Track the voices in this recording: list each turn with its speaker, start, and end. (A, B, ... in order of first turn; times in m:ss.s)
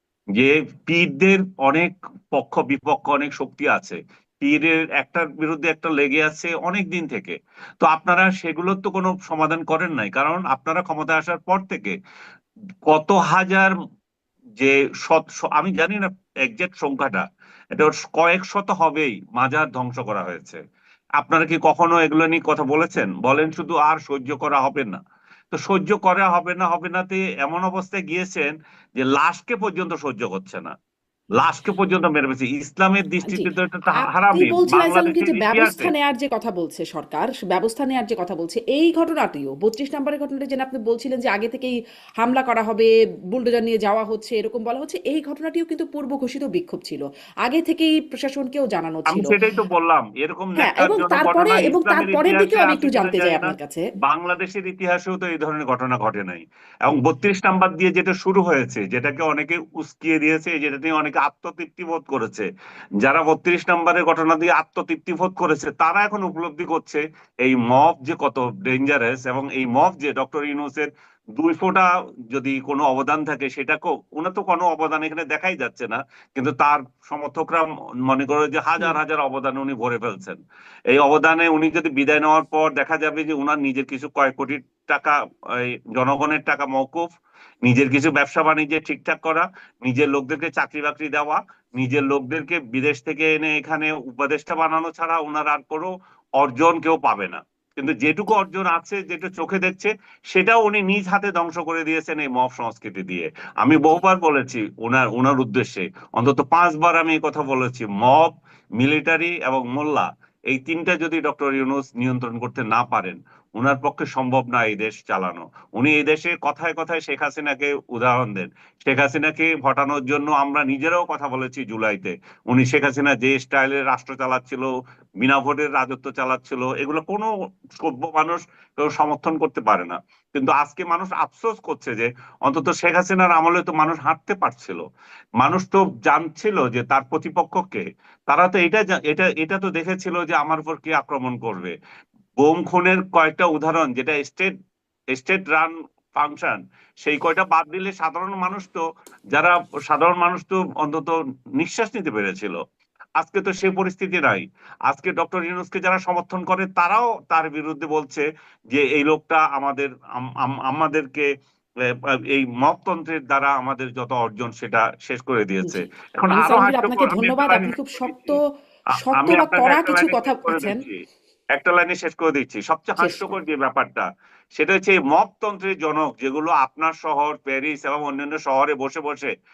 0:00.4-0:12.0 A
0:12.9-0:13.7 A
0:14.6-0:20.6 A
0:21.2-0:25.0 A
0:25.5-0:30.7 A
0:31.4-0:35.9 A
0:34.0-0:49.3 B
0:49.1-1:02.5 A
0:50.6-0:53.8 B
1:03.0-1:20.4 A
1:20.9-2:14.8 A
2:15.4-2:21.8 A
2:22.4-2:24.5 A
2:25.1-2:32.6 A
2:33.2-2:41.3 A
2:41.9-2:48.4 A
2:45.6-2:48.4 B
2:49.0-2:50.8 B
2:49.1-2:51.0 A
2:51.6-2:59.3 A
2:53.0-2:53.4 B